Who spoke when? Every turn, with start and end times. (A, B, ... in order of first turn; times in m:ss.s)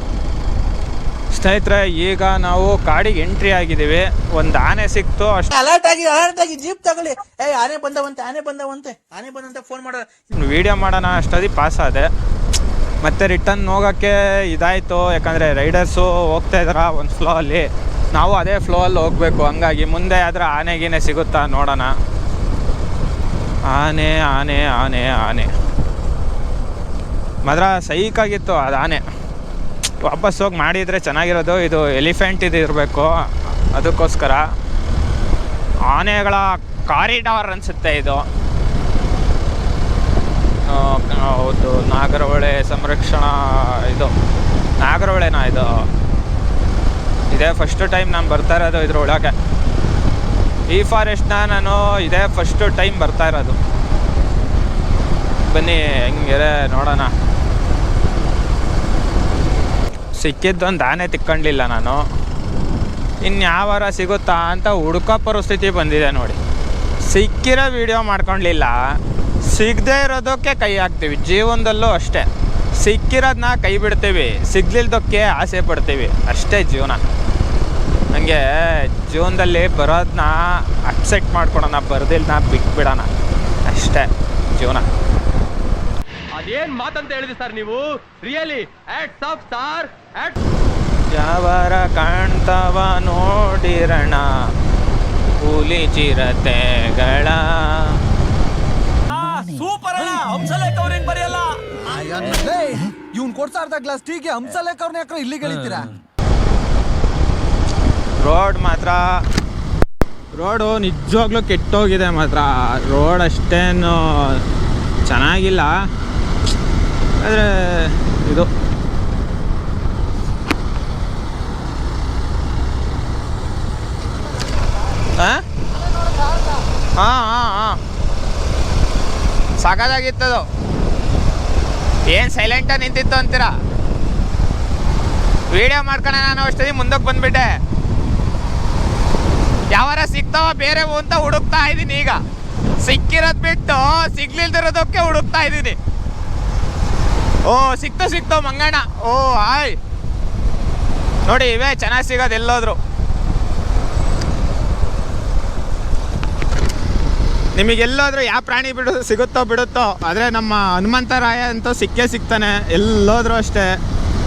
0:01.4-0:05.5 A
0:05.5-0:10.0 B
0:10.4-0:12.1 A
0:13.0-0:21.9 A
0:23.7-0:25.5 A
0:27.4-0:29.0 A
0:30.0-0:33.1 A
0:33.7-0:34.4 A
0:35.9-0:38.2 A
0:40.7-0:44.1 A
0:44.8-0:45.9 A
0:47.3-0:49.3 A
0:50.7-0:53.6 A
0:55.5-0:57.1 A
1:00.2-1:02.0 A
1:03.2-1:06.4 A
1:07.0-1:08.8 A
1:09.4-1:12.3 A
1:12.8-1:17.0 A
1:18.1-1:23.1 A
1:23.7-1:24.9 A
1:26.4-1:30.3 C
1:31.1-1:34.3 A
1:35.4-1:38.0 A
1:39.1-1:45.9 D
1:48.2-1:49.0 A
1:50.3-1:54.4 A
1:55.1-1:55.7 A
1:57.2-1:58.5 A
2:05.2-2:05.4 A
2:07.0-2:07.8 A
2:09.6-2:10.4 A
2:12.1-2:13.5 A
2:15.5-2:17.5 A
2:19.7-2:22.2 A
2:22.8-2:25.8 A
2:27.4-2:29.8 A
2:31.2-2:32.8 A
2:37.6-2:43.7 A